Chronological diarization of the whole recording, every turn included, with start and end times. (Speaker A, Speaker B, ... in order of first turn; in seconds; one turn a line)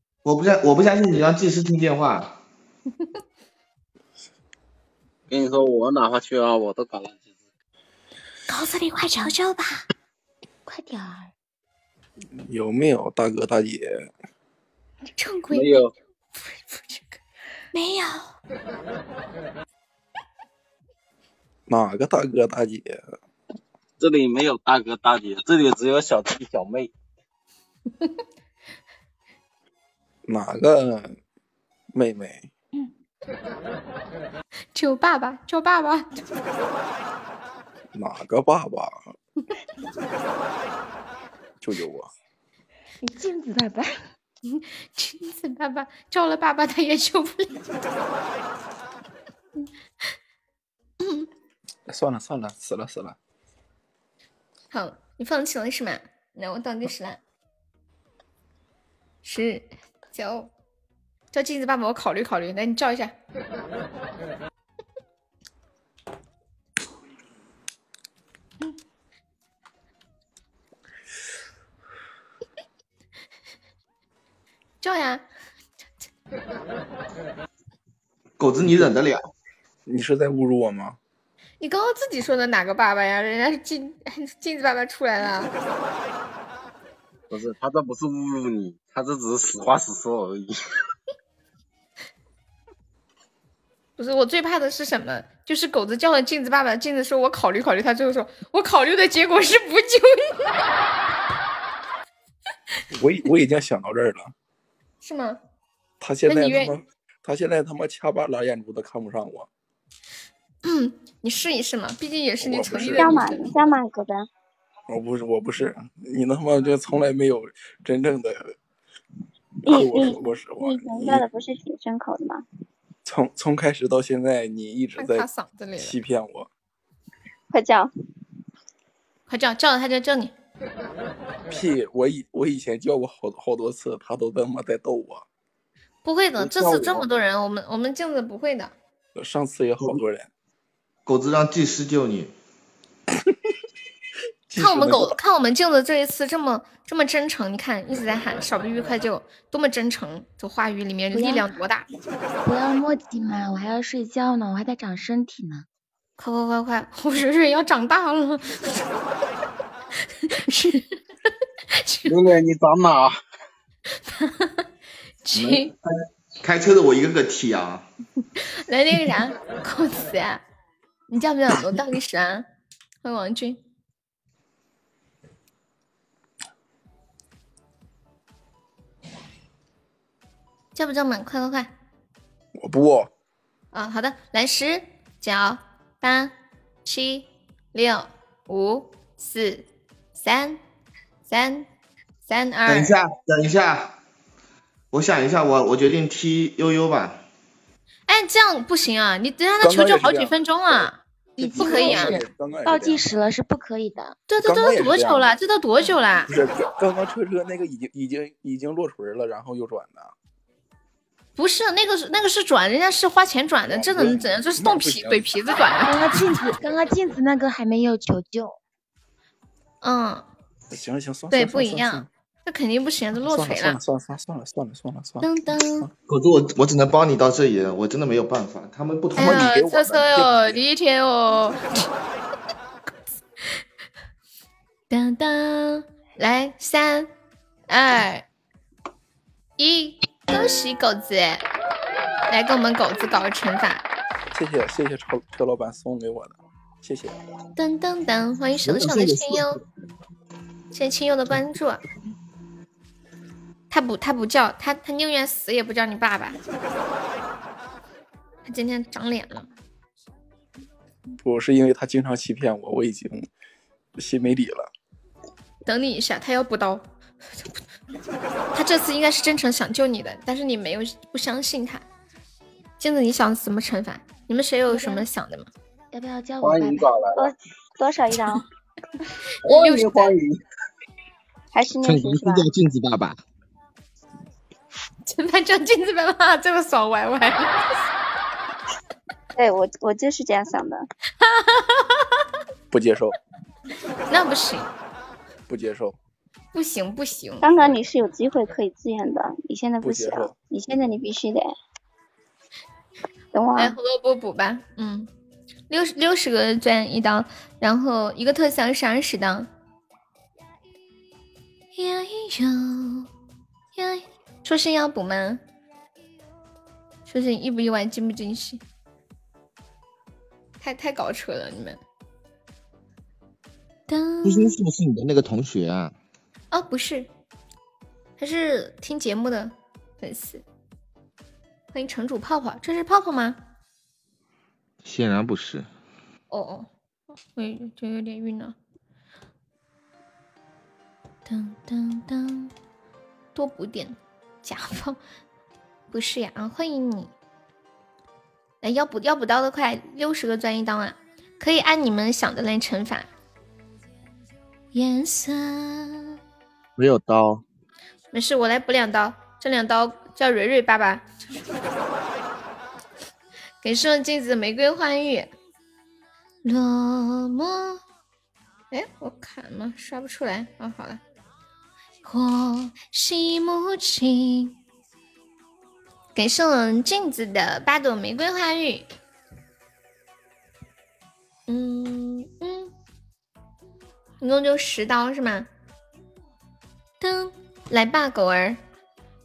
Speaker A: 0.2-2.4
Speaker B: 5.3-7.3
Speaker C: 8.5-9.8
Speaker D: 10.7-11.3
Speaker E: 12.4-14.1
Speaker C: 15.2-15.7
Speaker B: 15.5-15.9
Speaker C: 16.4-17.2
Speaker C: 17.7-18.3
Speaker E: 21.7-23.0
Speaker B: 24.0-26.9
Speaker E: 30.3-31.2
Speaker E: 31.9-32.5
Speaker C: 34.8-36.2
Speaker E: 37.9-39.1
Speaker E: 41.6-42.1
Speaker D: 43.0-43.9
Speaker C: 44.5-47.5
Speaker C: 51.0-51.3
Speaker E: 51.9-53.2
Speaker C: 54.7-57.2
Speaker C: 59.2-60.5
Speaker C: 61.3-63.1
Speaker C: 74.8-75.2
Speaker A: 78.4-79.3
Speaker E: 79.9-81.0
Speaker C: 81.6-85.5
Speaker B: 87.3-90.6
Speaker C: 94.0-100.4
Speaker E: 102.9-104.3
Speaker C: 105.0-105.4
Speaker E: 106.0-109.5
Speaker C: 106.3-106.8
Speaker C: 110.6-113.4
Speaker E: 112.4-113.2
Speaker F: 112.7-114.3
Speaker E: 114.9-118.5
Speaker F: 119.7-122.4
Speaker E: 119.7-121.2
Speaker E: 123.0-126.5
Speaker C: 125.0-126.0
Speaker F: 127.5-127.9
Speaker C: 129.3-130.3
Speaker E: 131.5-135.2
Speaker C: 136.1-138.7
Speaker E: 139.2-140.3
Speaker A: 141.1-142.3
Speaker E: 144.5-145.2
Speaker C: 144.6-151.9
Speaker D: 151.1-151.5
Speaker D: 152.5-155.7
Speaker C: 156.2-158.8
Speaker C: 160.2-160.9
Speaker C: 161.7-162.1
Speaker B: 162.1-163.2
Speaker C: 164.1-164.6
Speaker C: 165.2-165.7
Speaker A: 165.3-165.8
Speaker A: 166.4-167.9
Speaker C: 168.7-170.4
Speaker C: 171.1-172.4
Speaker C: 173.0-173.6
Speaker C: 180.8-181.7
Speaker E: 182.6-183.1
Speaker C: 183.7-186.3
Speaker C: 186.8-189.7
Speaker C: 190.2-190.6
Speaker C: 191.3-191.7
Speaker C: 192.3-193.0
Speaker A: 192.7-193.9
Speaker A: 194.9-197.2
Speaker C: 198.1-201.0
Speaker E: 199.6-203.1
Speaker D: 201.4-204.2
Speaker C: 201.6-202.2
Speaker C: 204.3-206.3
Speaker E: 204.4-205.3
Speaker E: 206.3-210.1
Speaker C: 211.4-215.9
Speaker E: 213.7-215.5
Speaker D: 215.9-218.6
Speaker C: 219.8-220.3
Speaker E: 220.7-222.1
Speaker C: 221.3-223.8
Speaker E: 223.2-225.9
Speaker C: 225.2-225.9
Speaker A: 226.1-229.5
Speaker E: 229.2-230.6
Speaker C: 229.2-231.8
Speaker C: 234.9-237.1
Speaker C: 237.7-238.3
Speaker C: 239.6-241.4
Speaker C: 242.3-243.8
Speaker E: 244.3-247.2
Speaker C: 247.6-249.6
Speaker A: 248.6-249.7
Speaker C: 250.7-251.8
Speaker C: 253.7-256.4
Speaker C: 258.5-259.5
Speaker E: 261.2-263.3
Speaker E: 264.0-264.7
Speaker C: 265.7-266.8
Speaker C: 268.5-271.9
Speaker C: 272.8-275.5
Speaker D: 274.7-275.1
Speaker D: 275.9-276.9
Speaker B: 276.4-277.3
Speaker F: 277.1-278.4
Speaker B: 279.4-280.4
Speaker C: 279.4-280.2
Speaker F: 281.5-282.5
Speaker A: 281.8-283.2
Speaker C: 285.1-287.6
Speaker F: 289.4-290.9
Speaker C: 291.2-292.0
Speaker E: 292.7-293.2
Speaker C: 294.1-294.7
Speaker E: 295.5-296.0
Speaker C: 296.5-297.5
Speaker F: 297.4-301.5
Speaker E: 299.8-300.3
Speaker F: 303.3-303.8
Speaker C: 303.6-305.1
Speaker C: 305.7-309.5
Speaker C: 311.8-313.1
Speaker C: 313.8-315.4
Speaker C: 317.1-318.6
Speaker C: 320.6-321.8
Speaker C: 323.9-324.5
Speaker A: 324.2-325.9
Speaker C: 326.5-327.1
Speaker C: 328.2-330.4
Speaker C: 331.7-333.4
Speaker A: 334.8-335.7
Speaker C: 336.3-336.7
Speaker C: 337.4-338.6
Speaker C: 341.3-342.5
Speaker C: 343.4-345.0
Speaker C: 345.9-347.1
Speaker C: 348.6-353.1
Speaker C: 354.7-356.1
Speaker A: 356.8-357.4
Speaker C: 358.1-361.1
Speaker C: 363.6-365.3
Speaker C: 366.4-367.8
Speaker C: 368.7-371.0
Speaker C: 372.1-374.5
Speaker C: 376.1-378.9
Speaker C: 381.5-382.7
Speaker C: 384.2-385.5
Speaker C: 387.0-388.6